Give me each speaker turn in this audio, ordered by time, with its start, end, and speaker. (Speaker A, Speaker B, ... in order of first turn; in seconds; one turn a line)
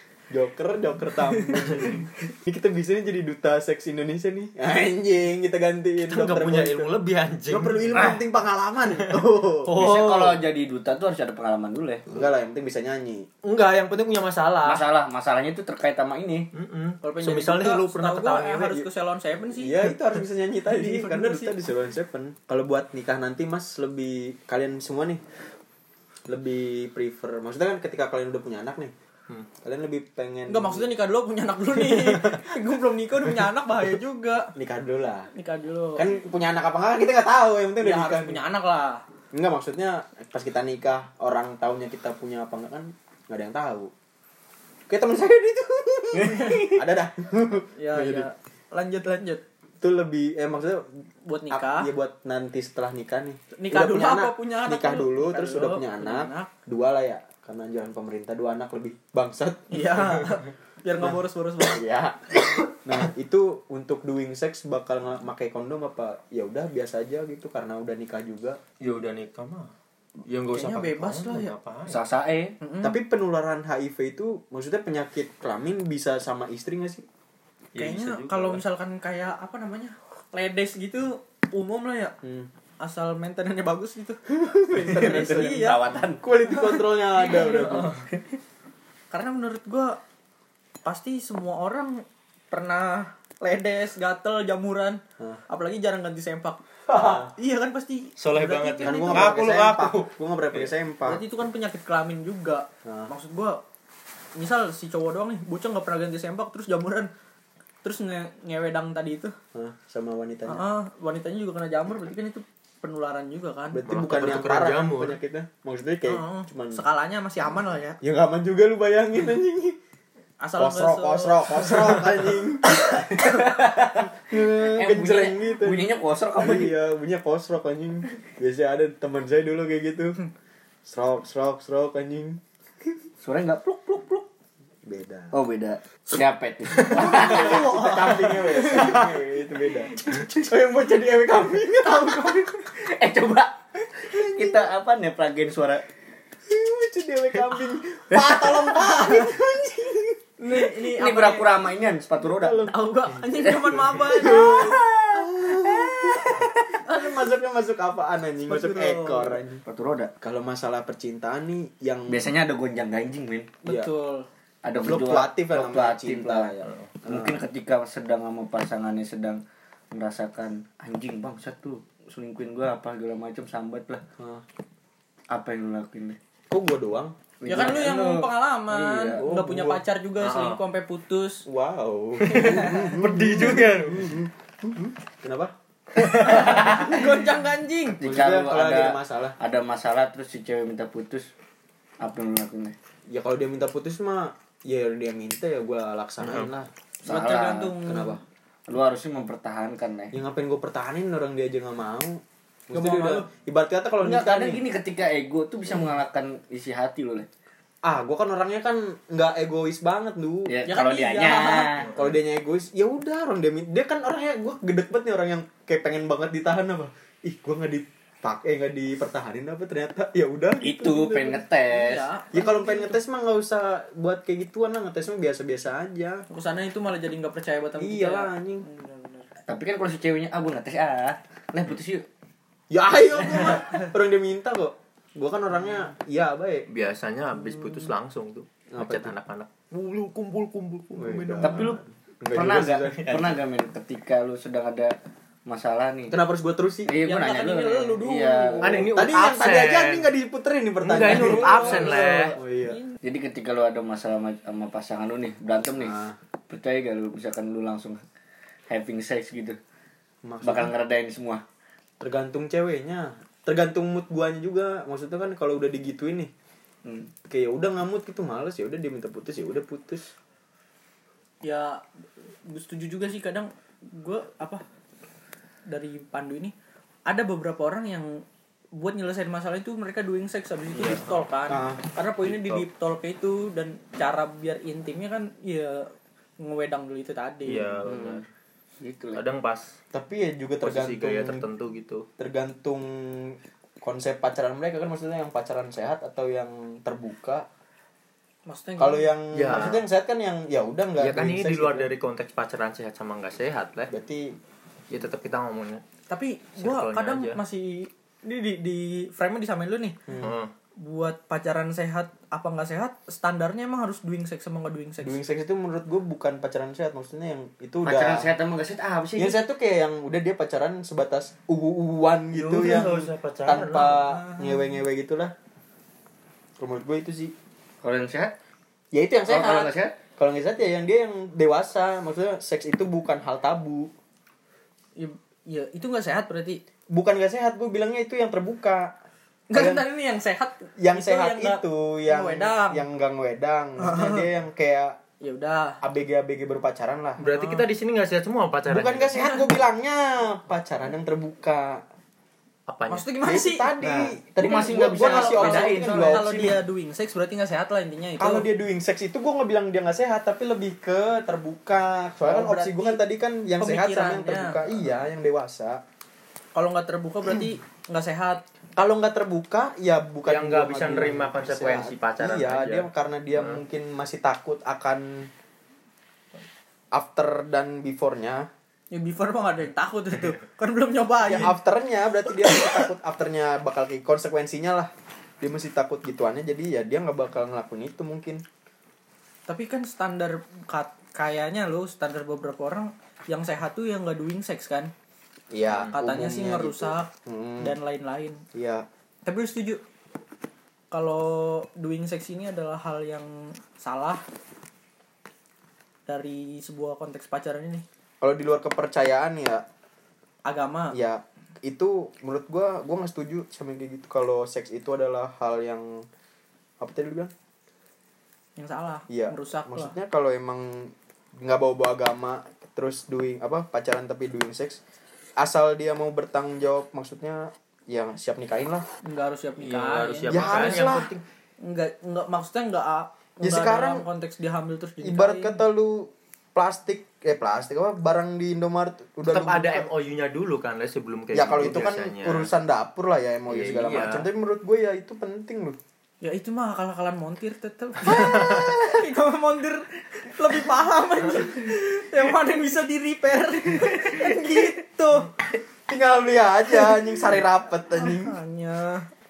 Speaker A: 0.3-6.9
Speaker B: 6.1-8.2
Speaker A: 7.5-9.7
Speaker C: 7.9-8.2
Speaker B: 9.0-10.4
Speaker C: 9.7-12.1
Speaker A: 12.1-13.3
Speaker B: 13.4-14.8
Speaker C: 14.6-16.5
Speaker B: 16.5-18.9
Speaker D: 17.0-19.8
Speaker A: 19.6-25.2
Speaker D: 20.6-21.5
Speaker A: 26.3-28.9
Speaker A: 29.6-30.9
Speaker D: 30.5-34.5
Speaker A: 31.7-32.5
Speaker A: 34.5-35.3
Speaker D: 35.3-36.1
Speaker A: 36.0-38.4
Speaker D: 37.8-39.0
Speaker A: 39.3-43.9
Speaker A: 44.9-48.3
Speaker C: 46.1-46.8
Speaker D: 47.8-49.4
Speaker A: 49.8-50.9
Speaker D: 51.2-51.9
Speaker A: 51.5-60.1
Speaker D: 53.5-56.5
Speaker D: 59.7-61.8
Speaker A: 61.0-68.6
Speaker B: 68.8-69.7
Speaker B: 70.2-72.0
Speaker D: 70.5-71.5
Speaker C: 71.9-72.5
Speaker D: 72.6-73.0
Speaker A: 72.8-77.0
Speaker B: 77.7-78.6
Speaker D: 77.8-82.1
Speaker A: 82.2-82.5
Speaker D: 82.8-85.8
Speaker A: 84.3-87.9
Speaker C: 84.9-86.2
Speaker D: 86.5-87.9
Speaker D: 89.1-90.0
Speaker D: 90.8-99.4
Speaker A: 97.0-97.2
Speaker B: 98.2-100.7
Speaker A: 98.8-101.2
Speaker D: 101.0-103.6
Speaker A: 102.8-103.1
Speaker D: 104.3-107.1
Speaker D: 107.8-109.3
Speaker A: 109.5-110.6
Speaker D: 110.5-113.8
Speaker A: 113.7-116.8
Speaker B: 113.8-115.2
Speaker D: 116.1-118.0
Speaker A: 118.0-119.8
Speaker D: 120.4-122.0
Speaker A: 120.6-123.3
Speaker C: 122.7-126.8
Speaker A: 124.2-130.2
Speaker A: 130.8-132.4
Speaker C: 133.2-134.3
Speaker A: 134.8-135.3
Speaker C: 135.3-138.9
Speaker A: 136.9-142.5
Speaker D: 136.9-139.0
Speaker C: 142.1-145.8
Speaker A: 144.1-144.7
Speaker A: 146.5-150.2
Speaker C: 148.1-148.7
Speaker D: 150.4-151.7
Speaker C: 150.5-152.7
Speaker A: 152.2-152.8
Speaker D: 152.6-154.9
Speaker C: 153.4-156.4
Speaker A: 154.1-159.6
Speaker D: 156.8-157.2
Speaker D: 158.5-159.4
Speaker C: 159.7-160.1
Speaker A: 160.2-162.3
Speaker C: 162.1-163.5
Speaker D: 163.6-164.3
Speaker C: 164.6-174.0
Speaker A: 164.8-167.4
Speaker A: 174.2-174.4
Speaker C: 175.3-176.2
Speaker A: 176.5-177.1
Speaker C: 177.4-179.2
Speaker D: 177.4-181.4
Speaker A: 179.2-179.8
Speaker B: 180.2-180.6
Speaker A: 181.4-185.5
Speaker B: 182.3-184.2
Speaker D: 182.3-182.9
Speaker D: 186.1-188.0
Speaker C: 186.1-186.9
Speaker A: 186.2-187.0
Speaker C: 188.0-191.3
Speaker A: 188.0-189.3
Speaker C: 192.0-192.7
Speaker A: 193.1-196.7
Speaker B: 196.2-196.5
Speaker D: 197.0-198.2
Speaker C: 197.1-197.8
Speaker A: 197.8-198.2
Speaker C: 198.7-200.1
Speaker A: 200.1-204.6
Speaker D: 202.7-203.3
Speaker C: 204.0-207.3
Speaker A: 207.8-210.5
Speaker C: 210.5-211.9
Speaker D: 210.7-211.8
Speaker B: 211.9-212.1
Speaker A: 211.9-221.4
Speaker C: 220.6-222.1
Speaker D: 221.7-223.0
Speaker A: 222.3-226.2
Speaker D: 226.3-229.3
Speaker A: 227.8-228.6
Speaker C: 229.5-232.0
Speaker A: 232.7-236.7
Speaker B: 236.7-241.8
Speaker A: 238.7-239.1
Speaker A: 240.9-243.3
Speaker C: 241.4-241.8
Speaker C: 242.3-244.9
Speaker C: 245.4-246.2
Speaker A: 246.1-246.9
Speaker C: 246.8-248.9
Speaker D: 247.0-248.8
Speaker B: 248.6-250.1
Speaker A: 248.8-252.8
Speaker B: 250.8-252.3
Speaker D: 251.0-252.9
Speaker C: 253.0-256.0
Speaker A: 255.8-256.1
Speaker C: 256.5-258.0
Speaker C: 258.7-259.6
Speaker A: 260.2-260.7
Speaker C: 260.4-261.4
Speaker A: 262.0-266.3
Speaker C: 266.8-267.1
Speaker A: 267.3-270.1
Speaker D: 271.4-271.8
Speaker D: 272.4-274.6
Speaker D: 275.7-276.5
Speaker D: 277.1-287.8
Speaker B: 280.7-281.2
Speaker A: 281.5-281.8
Speaker B: 282.2-282.6
Speaker B: 287.4-288.2
Speaker C: 287.8-288.2
Speaker C: 288.8-289.2
Speaker B: 289.1-289.8
Speaker A: 289.9-291.4
Speaker B: 290.6-292.1
Speaker A: 292.2-297.5
Speaker D: 298.5-299.1
Speaker A: 298.8-301.9
Speaker B: 299.3-299.8
Speaker B: 301.0-303.9
Speaker A: 303.9-304.4
Speaker B: 304.9-305.8
Speaker D: 306.1-310.0
Speaker B: 306.6-307.4
Speaker A: 310.1-310.3
Speaker B: 310.2-310.5
Speaker D: 310.8-315.2
Speaker A: 315.0-318.3
Speaker C: 317.8-319.4
Speaker A: 319.2-325.3
Speaker B: 322.3-324.0
Speaker D: 323.7-324.6
Speaker A: 326.6-327.3
Speaker C: 327.8-328.3
Speaker A: 328.9-333.9
Speaker C: 329.3-329.9
Speaker D: 335.0-336.6
Speaker A: 336.9-338.9
Speaker D: 339.5-342.8
Speaker A: 339.5-339.8
Speaker A: 340.8-345.0
Speaker D: 343.8-344.3
Speaker D: 345.2-345.8
Speaker A: 345.8-347.2
Speaker B: 347.2-349.2
Speaker D: 347.2-347.6
Speaker A: 348.7-351.8
Speaker D: 349.1-349.4
Speaker B: 352.7-353.1
Speaker D: 352.9-354.1
Speaker A: 353.2-356.6
Speaker C: 353.8-356.5
Speaker D: 354.9-358.5
Speaker A: 358.2-365.8
Speaker D: 362.2-363.0
Speaker D: 363.6-364.6
Speaker D: 366.5-368.4
Speaker A: 368.8-375.3
Speaker B: 370.2-373.6
Speaker A: 376.9-378.5
Speaker D: 378.9-381.6
Speaker A: 381.2-388.4
Speaker D: 382.5-382.8
Speaker D: 389.5-394.9
Speaker A: 395.5-397.8
Speaker D: 395.9-398.4
Speaker A: 398.5-398.9
Speaker D: 399.2-399.8
Speaker D: 400.9-404.2
Speaker D: 406.1-407.8
Speaker A: 408.2-409.6
Speaker D: 410.4-410.9
Speaker A: 410.9-416.1
Speaker A: 416.8-417.3
Speaker D: 418.6-419.9
Speaker A: 419.1-424.8
Speaker A: 425.4-428.8
Speaker D: 429.0-431.0
Speaker B: 429.6-431.2
Speaker A: 430.3-431.1
Speaker D: 431.6-435.6
Speaker A: 433.4-434.0
Speaker A: 435.0-439.9
Speaker B: 439.3-442.5
Speaker A: 441.3-445.8
Speaker B: 443.5-444.3
Speaker D: 446.2-455.3
Speaker B: 448.1-448.6
Speaker A: 448.1-449.1
Speaker A: 455.9-458.4
Speaker D: 457.9-459.1